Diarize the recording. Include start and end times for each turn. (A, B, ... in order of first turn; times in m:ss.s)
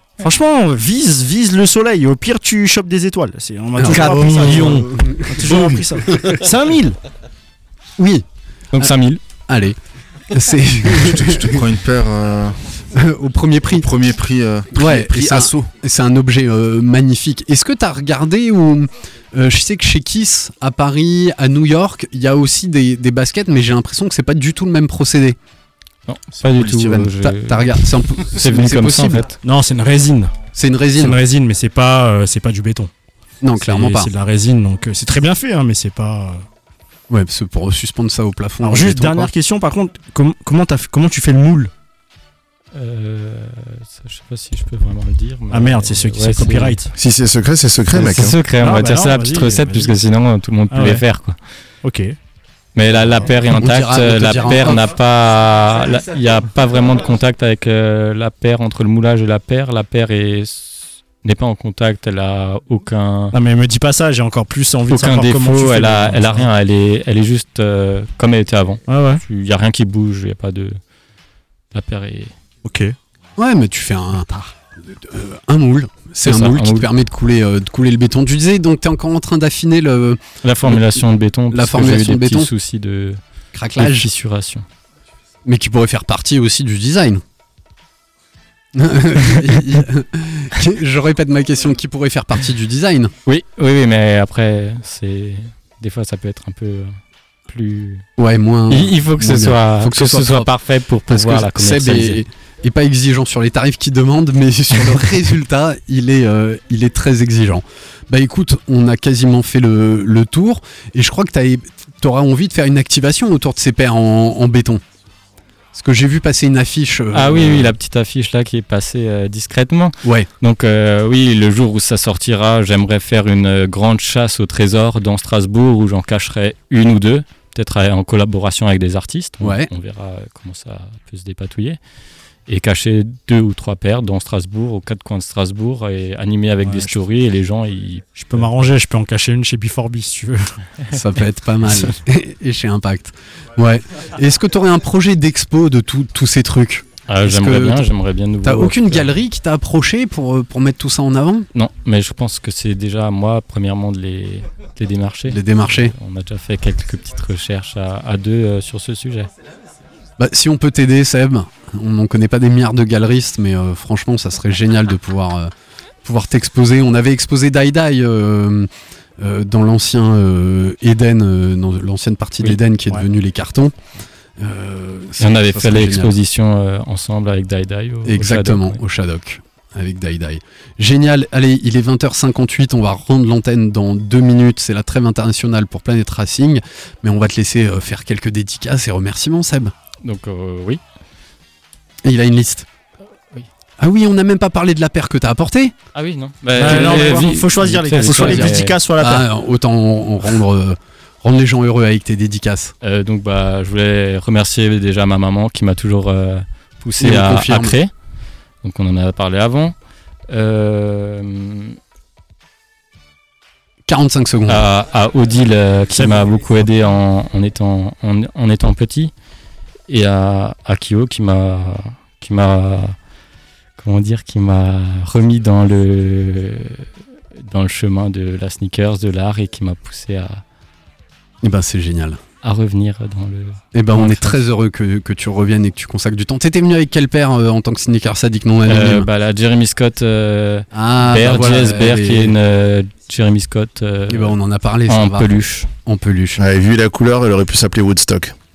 0:00.2-0:07.0 A
0:03.8-0:06.4 B
0:08.0-0:08.2 B
0:08.7-0:09.2 C
0:09.5-0:09.8 B
0:10.3-0:11.6 B
0:11.0-0:12.7 D
0:12.9-0:13.9 B
0:13.7-0:15.7 D
0:14.7-0:25.4 B
0:26.1-0:29.3 C
0:26.4-0:27.1 D
0:26.8-0:29.3 B
0:29.4-0:32.9 A
0:30.5-0:31.2 B
0:33.4-0:34.1 B
0:33.6-0:36.4 A
0:37.1-0:39.3 B
0:38.6-0:41.7 A
0:42.7-0:46.8 C
0:45.5-0:46.9 A
0:47.0-0:48.4 E
0:47.9-0:51.4 C
0:48.6-0:49.9 A
0:50.7-0:51.0 A
0:51.8-0:52.2 A
0:52.7-1:03.4 C
0:53.4-0:54.8 B
1:03.3-1:06.5 A
1:04.9-1:10.8 C
1:08.9-1:09.2 A
1:11.7-1:12.3 C
1:12.6-1:13.0 A
1:13.4-1:21.0 B
1:16.2-1:16.9 C
1:20.4-1:23.2 C
1:21.5-1:22.5 B
1:23.5-1:24.1 B
1:23.8-1:24.6 C
1:25.4-1:27.2 B
1:28.7-1:33.1 B
1:33.2-1:36.9 C
1:37.5-1:38.0 C
1:38.2-1:40.5 B
1:38.7-1:42.2 C
1:41.1-1:54.8 B
1:55.7-1:57.7 B
1:57.1-2:11.8 C
2:00.0-2:00.3 B
2:09.4-2:09.7 B
2:12.5-2:18.5 C
2:16.6-2:17.0 A
2:18.2-2:20.6 A
2:20.9-2:27.9 B
2:27.1-2:29.1 C
2:28.4-2:31.5 B
2:31.5-2:39.3 C
2:35.3-2:35.9 B
2:40.2-2:45.5 B
2:46.0-2:53.7 B
2:54.4-2:56.2 B
2:55.2-2:58.8 C
2:58.0-3:09.7 B
3:10.0-3:10.8 C
3:12.0-3:12.6 B
3:13.8-3:15.7 B
3:15.9-3:18.8 C
3:16.5-3:19.3 A
3:16.6-3:17.2 B
3:18.0-3:22.7 B
3:22.8-3:27.9 C
3:27.0-3:27.8 B
3:28.6-3:29.7 C
3:30.3-3:31.8 C
3:33.9-3:34.6 B
3:34.5-3:39.1 C
3:35.9-3:36.3 A
3:39.9-3:43.0 C
3:43.8-3:46.8 C
3:47.4-3:50.4 C
3:51.4-3:52.2 B
3:52.4-3:54.4 C
3:53.7-3:59.0 B
3:58.6-4:05.7 C
4:00.7-4:02.4 B
4:04.1-4:06.4 B
4:06.4-4:08.3 E